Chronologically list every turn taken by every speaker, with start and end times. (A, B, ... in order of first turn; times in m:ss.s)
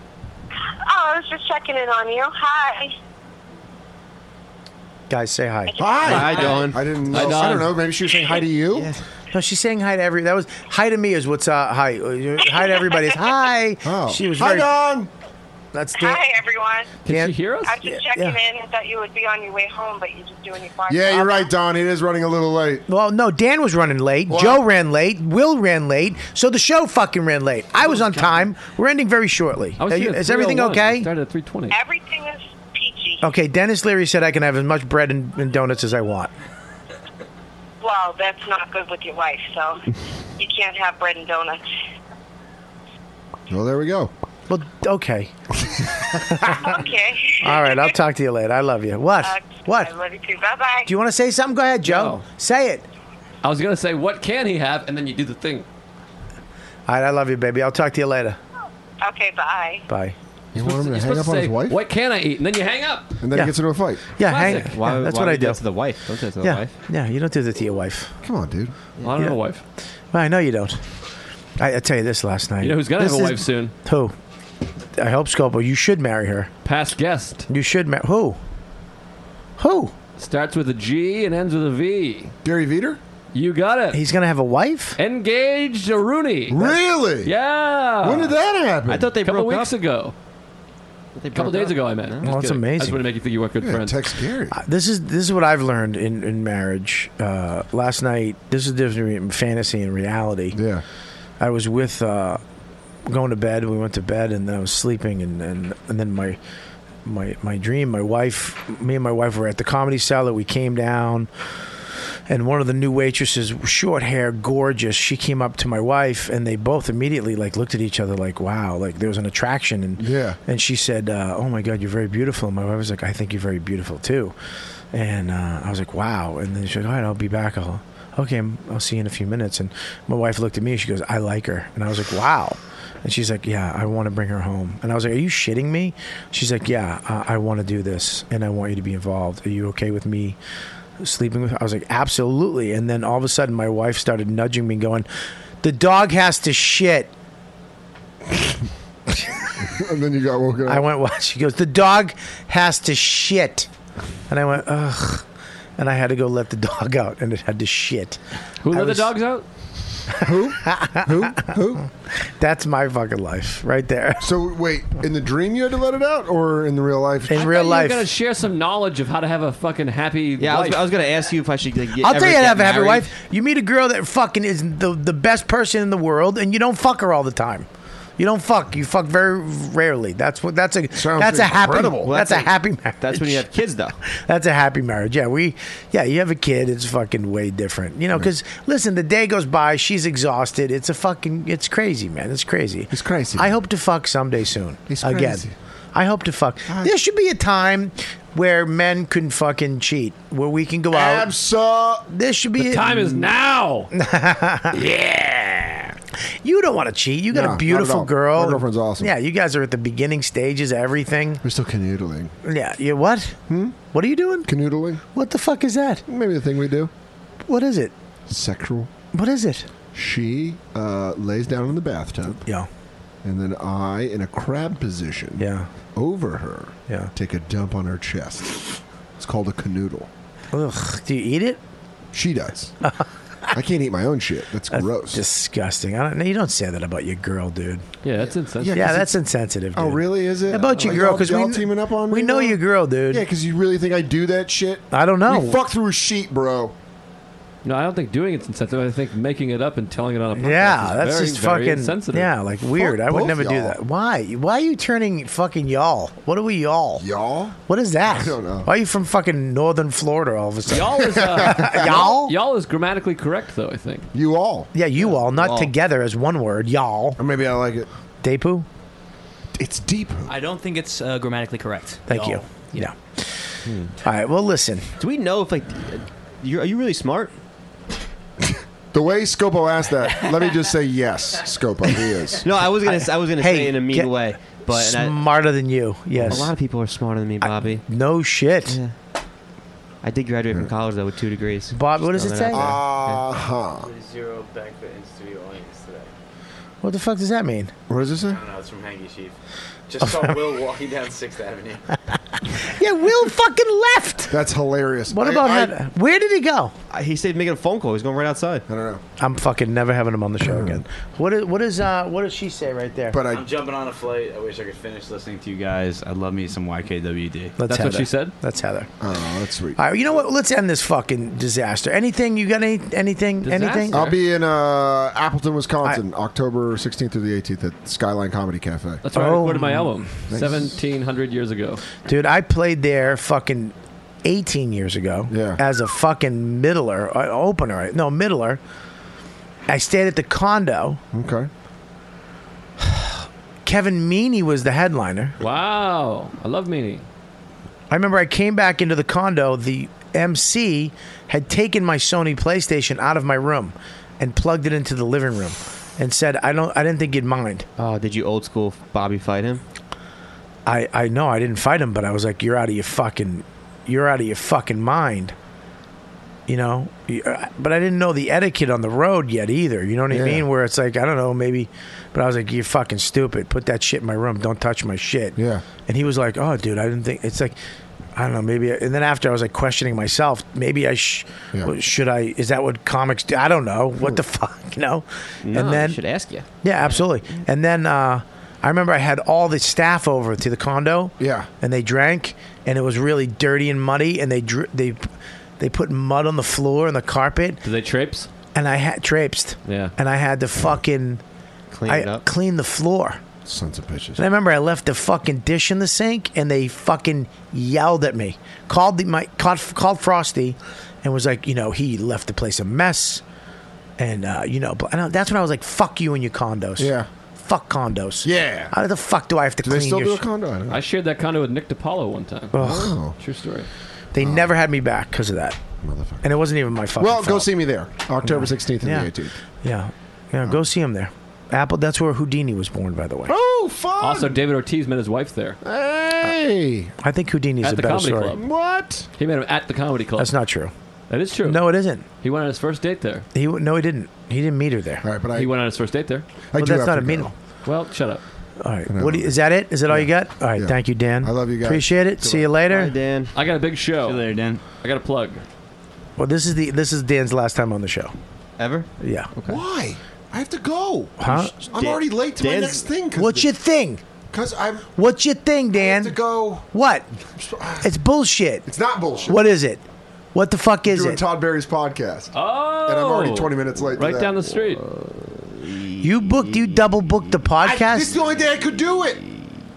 0:00.9-0:02.9 A
0:05.1-0:05.8 B
0:05.7-0:06.6 A
0:05.8-0:08.9 C
0:06.0-0:06.8 D
0:06.1-0:07.8 E
0:08.1-0:08.4 A
0:09.3-0:14.7 B
0:12.6-0:13.2 A
0:13.8-0:15.1 C
0:15.7-0:16.2 B
0:16.0-0:16.9 A
0:17.0-0:17.8 E
0:17.1-0:18.4 B
0:17.7-0:21.5 A
0:20.9-0:22.8 C
0:22.9-0:31.1 B
0:24.3-0:24.6 C
0:27.9-0:28.3 E
0:29.8-0:31.8 E
0:31.7-0:33.2 A
0:33.2-0:36.3 B
0:37.8-0:39.8 A
0:40.4-0:41.6 A
0:43.5-0:44.1 C
0:44.5-0:45.3 B
0:46.1-0:46.8 B
0:46.6-0:47.9 A
0:47.4-0:49.9 B
0:49.2-0:50.9 A
0:50.9-0:52.8 B
0:51.8-0:52.2 E
0:53.4-0:55.7 E
0:56.9-0:58.4 B
0:59.0-0:59.8 A
0:59.9-1:00.2 B
1:00.5-1:01.8 C
1:00.6-1:03.1 E
1:03.2-1:04.1 C
1:04.1-1:05.6 B
1:04.2-1:04.7 E
1:04.7-1:06.7 D
1:06.4-1:08.1 B
1:08.2-1:08.7 C
1:09.0-1:09.6 E
1:10.1-1:10.8 B
1:11.6-1:14.2 B
1:12.6-1:13.7 E
1:15.0-1:16.5 B
1:16.6-1:17.5 E
1:17.5-1:18.4 B
1:19.6-1:19.9 B
1:20.2-1:22.3 E
1:22.4-1:23.0 C
1:23.3-1:24.0 E
1:23.9-1:25.0 B
1:25.0-1:26.7 E
1:26.5-1:27.3 C
1:27.2-1:28.4 E
1:28.0-1:29.1 C
1:28.9-1:29.7 D
1:29.2-1:30.2 E
1:31.2-1:32.2 D
1:31.3-1:34.0 E
1:32.2-1:33.0 B
1:33.6-1:34.6 C
1:34.5-1:40.6 B
1:40.5-1:40.8 C
1:41.4-1:42.4 B
1:43.1-1:46.4 B
1:47.0-1:51.3 B
1:52.3-2:04.4 B
2:00.0-2:00.4 C
2:04.9-2:20.4 B
2:21.0-2:25.1 B
2:25.6-2:27.1 B
2:29.6-2:30.8 C
2:30.7-2:33.7 B
2:34.3-2:35.2 B
2:35.8-2:38.2 B
2:38.6-2:39.4 E
2:38.7-2:39.1 B
2:40.2-2:41.8 C
2:40.6-2:41.4 B
2:42.3-2:44.2 B
2:44.2-2:47.4 C
2:47.3-2:48.1 B
2:47.3-2:50.8 E
2:50.4-2:53.1 D
2:52.0-2:57.7 B
2:58.2-3:03.5 B
3:00.9-3:02.1 C
3:02.0-3:04.0 D
3:04.1-3:21.3 B
3:12.9-3:13.5 C
3:14.9-3:15.5 C
3:16.7-3:16.9 C
3:20.9-3:22.1 C
3:22.1-3:23.2 B
3:22.6-3:23.9 E
3:23.9-3:25.9 B
3:26.4-3:31.4 B
3:27.3-3:29.1 C
3:31.4-3:32.3 C
3:32.4-3:33.4 B
3:33.5-3:33.8 C
3:33.9-3:34.5 B
3:34.5-3:35.0 C
3:35.1-3:36.0 B
3:36.1-3:36.9 C
3:37.5-3:37.9 B
3:38.3-3:38.9 C
3:39.1-3:39.7 B
3:39.9-3:42.4 C
3:43.2-3:50.1 C
3:45.4-3:45.7 B
3:50.5-3:51.6 B
3:52.1-3:52.8 C
3:53.5-3:55.2 C
3:54.7-3:57.8 B
3:58.0-3:59.0 E
3:58.6-3:59.1 C
3:58.7-4:03.3 B
3:59.7-4:02.6 C
4:03.1-4:06.7 C
4:04.9-4:05.6 B
4:07.6-4:12.3 E
4:10.4-4:17.0 B
4:12.8-4:13.8 C
4:17.0-4:18.7 C
4:17.7-4:22.4 B
4:20.7-4:24.1 E
4:21.0-4:22.1 C
4:24.1-4:24.7 C
4:24.7-4:27.2 B
4:25.4-4:25.7 D
4:27.2-4:27.9 C
4:28.2-4:28.7 B
4:29.6-4:30.3 C
4:30.2-4:32.9 F
4:32.1-4:33.3 B
4:33.7-4:33.9 D
4:34.0-4:34.9 B
4:35.0-4:37.3 D
4:38.9-4:42.4 C
4:42.4-4:45.2 D
4:42.8-4:46.5 B
4:46.2-4:46.5 C
4:46.3-4:47.8 D
4:47.4-4:48.8 B
4:48.7-4:48.9 D
4:50.0-4:53.2 D
4:51.7-4:52.8 B
4:52.5-4:53.9 C
4:53.8-4:56.1 G
4:56.8-4:57.7 B
4:57.9-4:58.4 C
4:58.3-4:59.4 G
4:59.9-5:01.8 G
5:00.0-5:00.4 B
5:02.7-5:04.4 B
5:04.3-5:05.8 C
5:05.1-5:06.7 B
5:06.9-5:08.6 D
5:08.7-5:09.0 C
5:09.2-5:13.2 B
5:10.4-5:10.8 C
5:13.1-5:13.5 C
5:13.3-5:17.6 G
5:17.6-5:18.9 B
5:17.7-5:18.3 E
5:19.0-5:19.9 C
5:19.8-5:24.1 B
5:23.4-5:24.2 E
5:23.9-5:29.0 C
5:29.0-5:31.8 E
5:29.1-5:29.9 B
5:30.3-5:30.7 C
5:32.0-5:38.6 B
5:35.3-5:35.6 C
5:39.7-5:41.0 B
5:41.1-5:41.5 C
5:42.8-5:45.4 B
5:45.4-5:47.0 E
5:47.9-5:57.7 B
5:57.8-5:59.6 D
6:00.7-6:05.3 B
6:06.5-6:17.6 B
6:10.1-6:10.5 C
6:15.4-6:15.6 C
6:18.2-6:26.0 B
6:25.4-6:27.3 D
6:26.6-6:35.1 B
6:31.2-6:31.5 C
6:35.6-6:37.6 B
6:37.6-6:38.3 E
6:38.6-6:41.2 B
6:39.7-6:39.9 E
6:41.7-6:42.2 D
6:41.9-6:43.2 B
6:43.4-6:44.2 C
6:44.2-6:53.2 B
6:54.0-7:00.2 B
6:56.8-6:57.1 C
6:58.2-6:58.7 C
6:59.6-7:00.8 C
7:00.7-7:02.6 E
7:02.5-7:03.0 B
7:02.6-7:03.2 C
7:03.2-7:03.7 E
7:04.1-7:05.6 B
7:04.2-7:04.5 C
7:05.8-7:06.2 C
7:06.2-7:07.5 B
7:07.0-7:09.4 C
7:08.2-7:09.1 B
7:09.6-7:13.4 B
7:13.3-7:14.4 C
7:14.0-7:15.6 E
7:15.6-7:16.9 C
7:17.0-7:18.4 B
7:17.6-7:18.4 E
7:18.4-7:19.1 C
7:19.2-7:20.3 E
7:20.2-7:20.7 B
7:21.1-7:21.6 E
7:21.4-7:22.0 B
7:22.2-7:23.3 E
7:23.3-7:25.0 B
7:25.0-7:25.5 C
7:25.3-7:26.3 E
7:26.5-7:27.3 C
7:26.6-7:27.3 B
7:27.6-7:28.2 E
7:28.6-7:33.0 B
7:28.9-7:29.3 C
7:29.9-7:31.9 C
7:32.2-7:33.3 D
7:33.3-7:35.4 E
7:34.1-7:34.5 F
7:34.1-7:34.6 G
7:36.2-7:38.1 B
7:38.6-7:39.6 D
7:39.0-7:39.3 B
7:39.5-7:43.5 C
7:41.2-7:41.5 B
7:41.7-7:42.9 D
7:43.2-7:44.0 B
7:44.3-7:44.9 C
7:45.0-7:46.2 B
7:45.8-7:46.7 C
7:46.7-7:47.1 B
7:47.4-7:47.9 C
7:47.8-7:48.7 B
7:48.6-7:49.4 C
7:49.3-7:49.8 B
7:50.3-7:51.2 B
7:50.8-7:52.3 C
7:52.3-7:54.8 E
7:52.8-7:54.4 C
7:54.8-7:57.4 D
7:56.0-7:58.2 B
7:57.6-7:59.2 C